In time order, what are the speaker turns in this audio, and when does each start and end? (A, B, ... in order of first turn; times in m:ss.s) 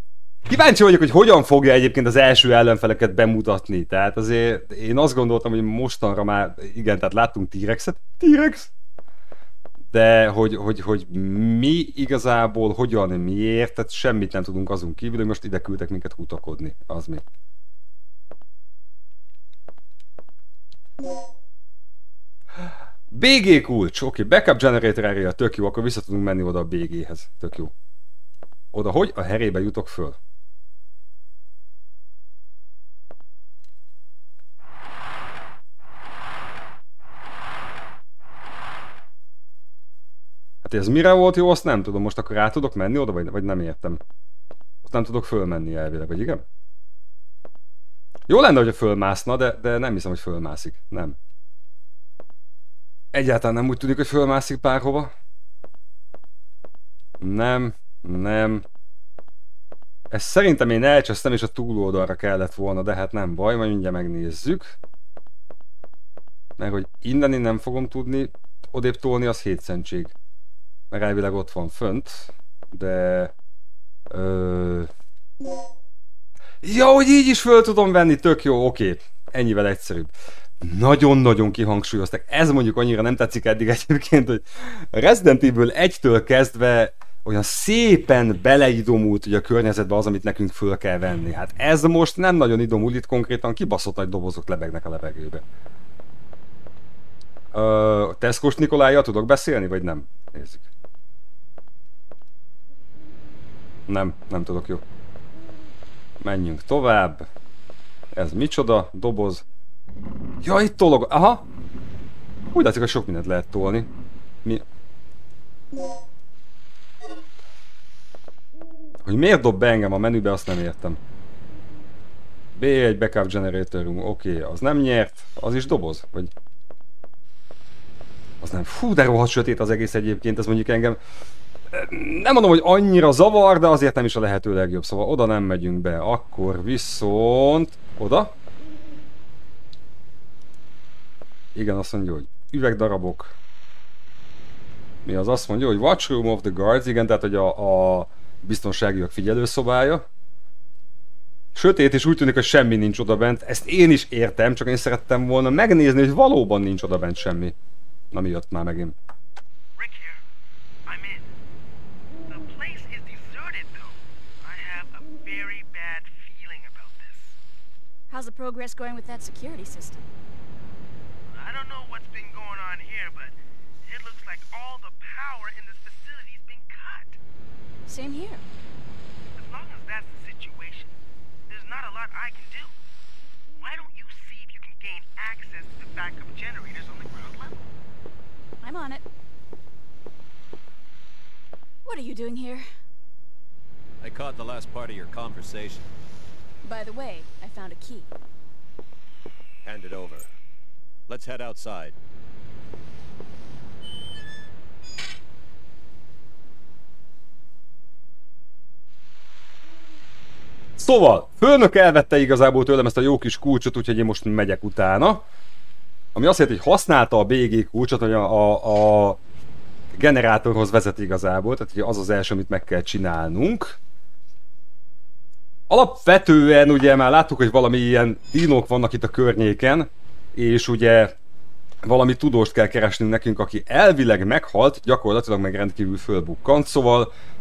0:00.5-0:08.7 A
0:09.9-0:17.2 A
0:23.1-0:27.7 A
0:28.7-0:30.2 A
0:40.6-0:44.0 A
0:44.8-0:46.4 A
0:48.3-0:51.2 A
0:53.1-0:55.1 A
0:57.2-0:58.6 A
1:00.1-1:04.8 A
1:06.6-1:10.1 A
1:10.9-1:13.3 A
1:14.1-1:14.9 A
1:16.6-1:35.4 A
1:37.5-1:40.6 A
1:43.9-1:44.8 A
1:46.2-1:47.3 A
1:48.1-1:49.4 A
1:50.4-1:51.4 A
1:52.5-1:53.9 A
1:59.0-2:01.0 A
2:02.5-2:06.3 A
2:08.4-2:11.0 A
2:11.7-2:18.3 A
2:21.5-2:23.3 A
2:25.0-2:30.0 A
2:31.5-2:37.5 A
2:38.1-2:38.9 A
2:39.8-2:40.2 B
2:40.8-2:41.3 B
2:42.3-2:47.4 B
2:48.1-2:50.1 C
2:51.3-2:57.2 B
2:57.8-2:58.4 C
2:59.4-3:01.0 B
3:01.5-3:02.8 B
3:03.6-3:07.7 B
3:08.6-3:09.0 C
3:11.8-3:12.7 C
3:14.0-3:15.9 D
3:16.6-3:18.1 C
3:19.6-3:20.3 D
3:21.1-3:22.0 D
3:30.8-3:35.2 A
3:36.1-3:39.2 A
3:39.9-3:43.8 A
3:45.7-3:51.1 A
3:51.8-3:57.1 A